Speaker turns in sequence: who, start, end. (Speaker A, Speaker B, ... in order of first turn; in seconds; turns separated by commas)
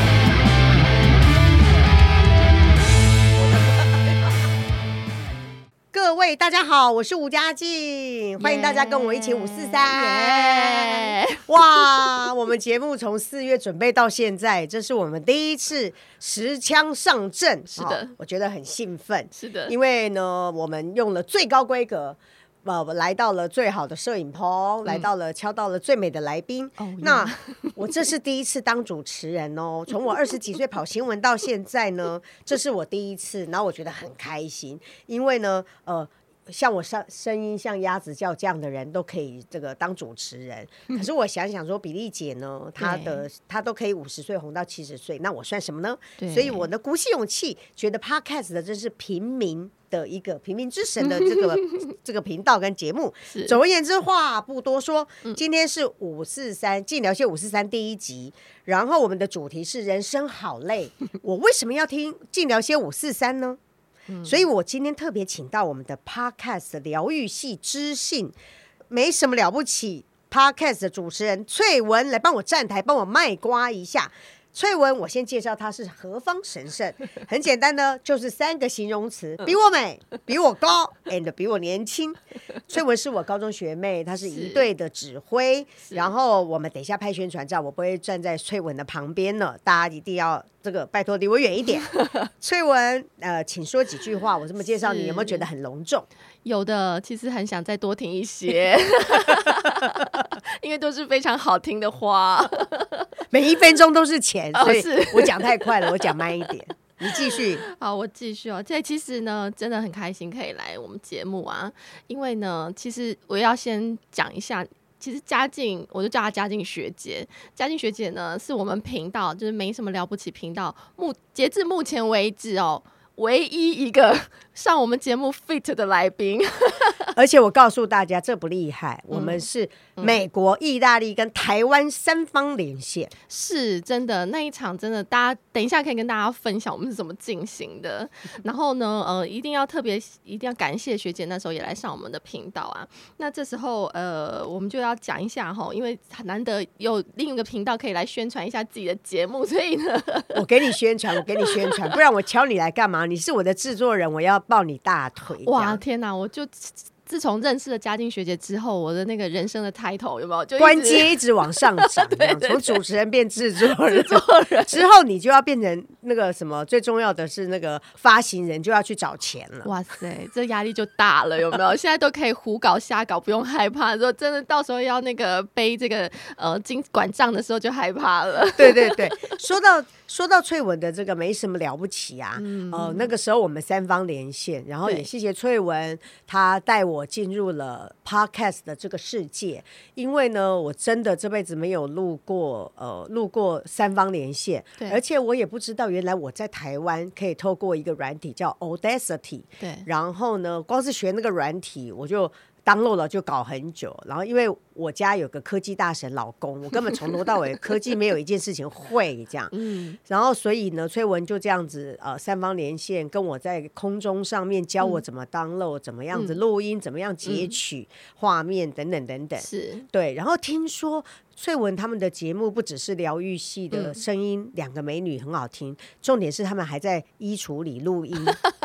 Speaker A: 5.9-63.6, Speaker B: 8.4-12.2, Speaker B: 17.8-18.1, Speaker B: 19.4-19.7, Speaker B: 26.8-28.0, Speaker B: 42.8-43.2, Speaker B: 46.2-46.7, Speaker B: 51.2-51.7, Speaker B: 53.3-53.6, Speaker B: 64.1-64.5, Speaker A: 64.2-68.3, Speaker A: 68.9-96.1, Speaker B: 84.3-84.7, Speaker B: 94.6-95.5, Speaker B: 96.5-103.1, Speaker A: 99.2-100.0, Speaker A: 103.3-107.6, Speaker B: 104.5-106.5, Speaker B: 107.1-127.1, Speaker A: 127.2-133.1, Speaker B: 129.1-129.4, Speaker B: 133.3-150.6, Speaker A: 150.3-155.8, Speaker B: 151.2-151.9, Speaker B: 155.4-162.8, Speaker A: 160.6-169.7, Speaker B: 163.6-164.8, Speaker B: 169.6-179.3, Speaker A: 178.6-209.5, Speaker B: 182.4-183.1, Speaker B: 199.6-199.9, Speaker B: 209.5-210.0, Speaker A: 210.1-228.4, Speaker B: 216.1-216.4, Speaker B: 217.2-217.5, Speaker B: 219.4-219.9, Speaker B: 223.7-224.0